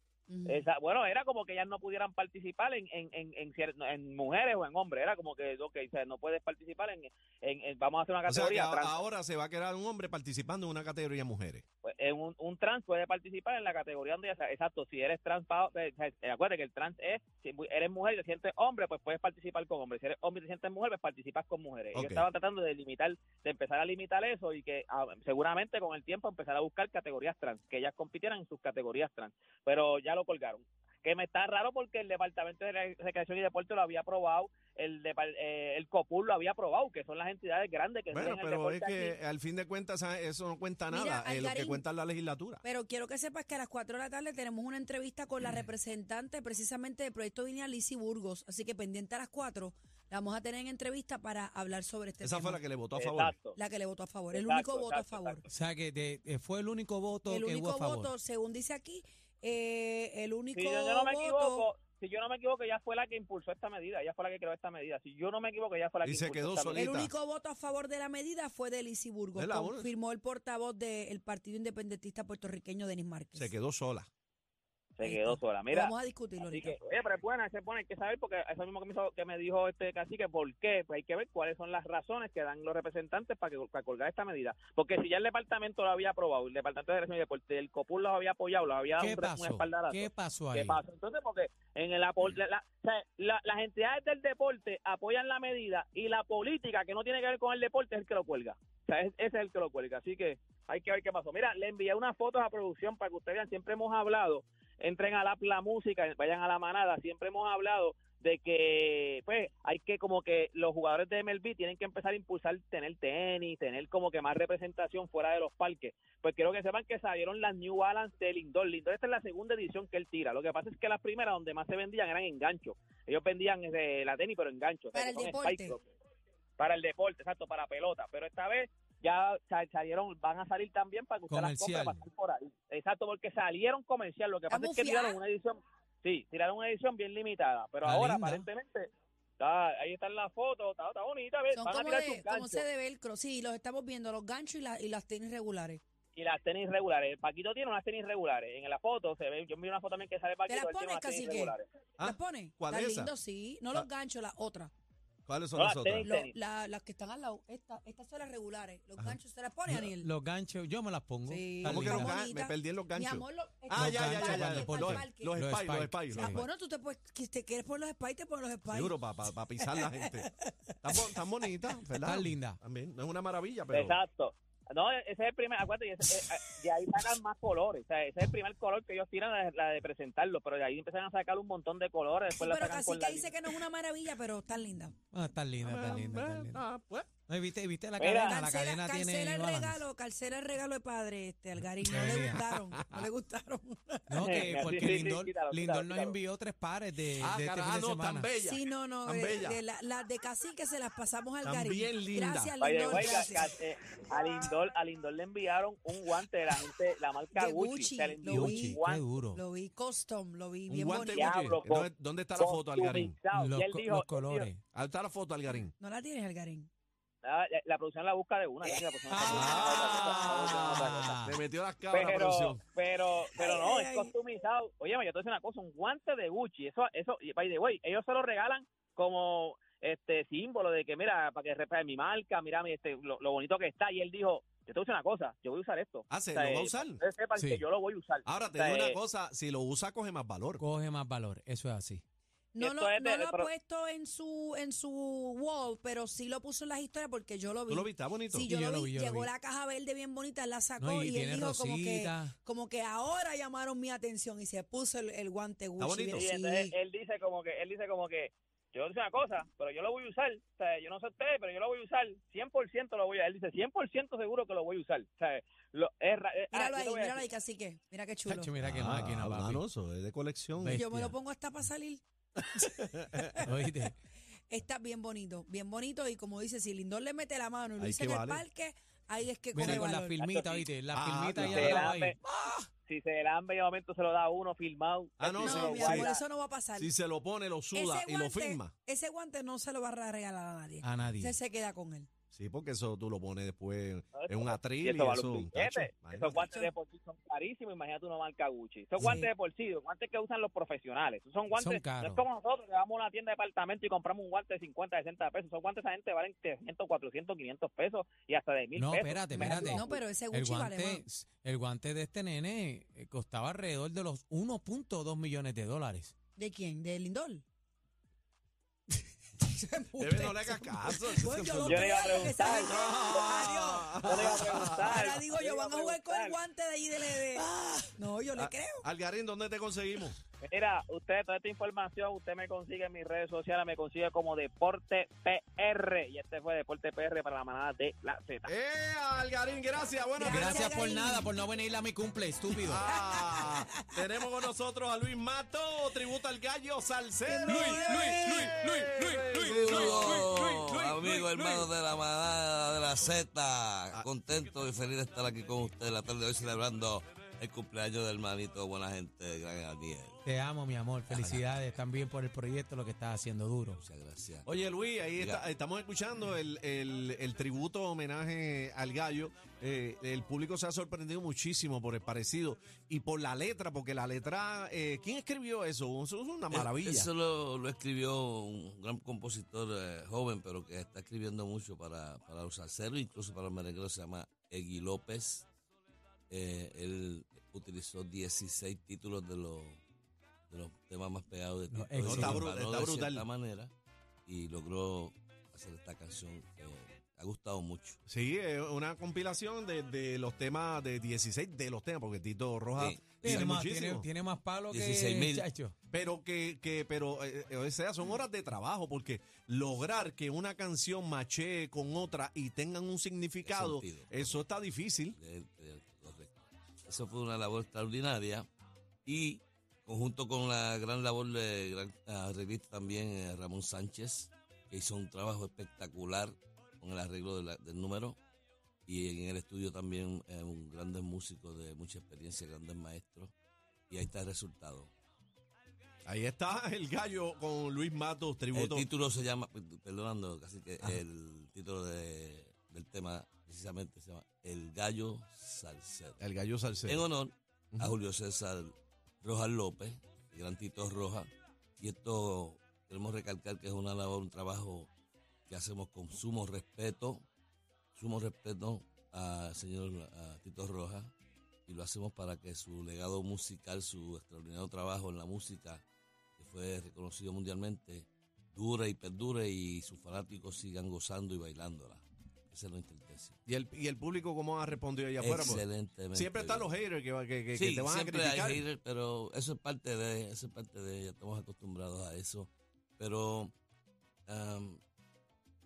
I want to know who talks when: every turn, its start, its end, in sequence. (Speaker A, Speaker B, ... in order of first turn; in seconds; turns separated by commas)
Speaker A: 0.3-0.7, Speaker B: 0.5-9.0, Speaker C: 8.3-11.6, Speaker B: 11.8-39.2, Speaker C: 21.9-22.2, Speaker C: 38.1-42.6, Speaker A: 40.9-41.8, Speaker A: 42.6-52.6, Speaker C: 52.2-53.3, Speaker B: 53.0-53.6, Speaker A: 53.6-55.5, Speaker B: 54.3-55.4, Speaker D: 55.5-58.1, Speaker A: 57.3-61.7, Speaker B: 60.5-66.9, Speaker C: 66.0-67.1, Speaker A: 66.7-73.5, Speaker C: 69.4-69.9, Speaker C: 73.3-74.1, Speaker B: 75.0-125.8, Speaker A: 75.0-76.8, Speaker D: 89.0-90.8, Speaker A: 124.9-125.8, Speaker B: 126.6-142.7, Speaker D: 131.3-132.1, Speaker A: 134.5-135.2, Speaker D: 137.8-138.5, Speaker A: 141.5-145.8, Speaker B: 146.1-151.7, Speaker A: 150.5-154.7, Speaker C: 152.0-153.1, Speaker C: 155.3-156.1, Speaker B: 155.6-156.3, Speaker A: 156.0-160.1, Speaker D: 160.0-162.1, Speaker A: 161.3-165.4, Speaker C: 161.7-166.4, Speaker D: 163.7-166.4, Speaker A: 166.1-169.0, Speaker C: 168.7-170.3, Speaker A: 169.6-171.0, Speaker C: 170.8-173.9, Speaker D: 172.0-172.6, Speaker B: 173.7-183.3, Speaker A: 182.3-184.9, Speaker D: 185.1-186.6, Speaker C: 185.6-187.1, Speaker D: 187.3-189.8, Speaker B: 188.0-188.4, Speaker A: 188.2-194.3, Speaker D: 191.9-192.5, Speaker C: 192.1-193.1, Speaker D: 194.1-198.3, Speaker B: 194.2-196.2, Speaker C: 197.2-199.6, Speaker A: 198.4-203.5, Speaker C: 201.4-203.2, Speaker B: 202.6-209.1, Speaker A: 207.3-208.8, Speaker D: 208.3-209.4, Speaker A: 209.3-211.7, Speaker C: 210.7-213.2, Speaker B: 211.1-214.5, Speaker D: 213.3-214.6, Speaker C: 214.7-215.7, Speaker A: 215.7-216.7, Speaker B: 217.2-221.2, Speaker D: 219.1-221.4, Speaker C: 219.2-222.6, Speaker B: 221.9-239.0, Speaker A: 223.4-224.1, Speaker C: 236.1-237.0, Speaker D: 237.4-237.6, Speaker C: 238.3-240.6, Speaker D: 240.6-242.0, Speaker A: 242.5-256.7, Speaker B: 242.6-243.5, Speaker C: 247.7-248.5, Speaker D: 248.4-249.3, Speaker D: 250.8-252.3, Speaker C: 255.8-256.3, Speaker B: 256.2-267.3, Speaker A: 266.5-268.5, Speaker D: 268.3-269.6, Speaker C: 268.6-270.8, Speaker D: 270.6-271.1, Speaker A: 270.7-272.0, Speaker A: 272.6-273.5, Speaker C: 272.6-273.3, Speaker D: 273.5-273.9, Speaker A: 274.5-280.2, Speaker C: 277.8-278.4, Speaker D: 279.5-282.2, Speaker B: 280.2-280.7, Speaker C: 280.9-281.9, Speaker B: 281.5-282.2, Speaker A: 282.3-282.7, Speaker B: 282.9-286.2, Speaker C: 285.2-286.1, Speaker A: 285.4-286.9, Speaker C: 286.8-288.7, Speaker A: 287.7-292.1, Speaker D: 290.8-291.4, Speaker C: 292.3-296.5, Speaker B: 294.1-310.1, Speaker A: 296.3-296.7, Speaker A: 299.0-299.3, Speaker D: 301.5-302.2, Speaker D: 308.8-316.1, Speaker A: 309.4-311.1, Speaker A: 316.4-317.4, Speaker A: 319.5-328.9, Speaker C: 320.0-324.9, Speaker B: 321.6-323.4, Speaker B: 324.0-326.4, Speaker C: 328.4-330.2, Speaker B: 330.4-338.5, Speaker C: 338.4-340.7, Speaker A: 340.2-341.3, Speaker D: 340.3-342.8, Speaker C: 342.6-351.7, Speaker A: 342.9-344.0, Speaker A: 347.3-348.6, Speaker E: 347.5-360.2, Speaker D: 360.2-363.8, Speaker E: 361.1-361.5, Speaker E: 363.8-364.5, Speaker C: 364.4-377.1, Speaker E: 365.2-365.4, Speaker E: 376.5-385.5, Speaker E: 386.3-389.8, Speaker E: 390.5-393.7, Speaker D: 391.7-392.5, Speaker C: 392.0-393.2, Speaker E: 394.3-398.0, Speaker C: 398.1-404.1, Speaker E: 402.8-403.5, Speaker D: 403.2-405.7, Speaker E: 404.7-405.5, Speaker C: 405.9-415.2, Speaker E: 413.4-414.4, Speaker E: 415.1-418.5, Speaker E: 419.1-428.2, Speaker E: 428.9-433.3, Speaker E: 433.9-434.9, Speaker C: 436.1-438.9, Speaker E: 438.5-446.2, Speaker C: 446.2-447.1, Speaker E: 446.9-454.9, Speaker E: 455.5-457.2, Speaker E: 457.9-461.1, Speaker E: 461.7-465.8, Speaker E: 466.4-473.4, Speaker C: 473.5-478.6, Speaker E: 475.2-476.7, Speaker E: 477.6-483.5, Speaker E: 484.3-484.8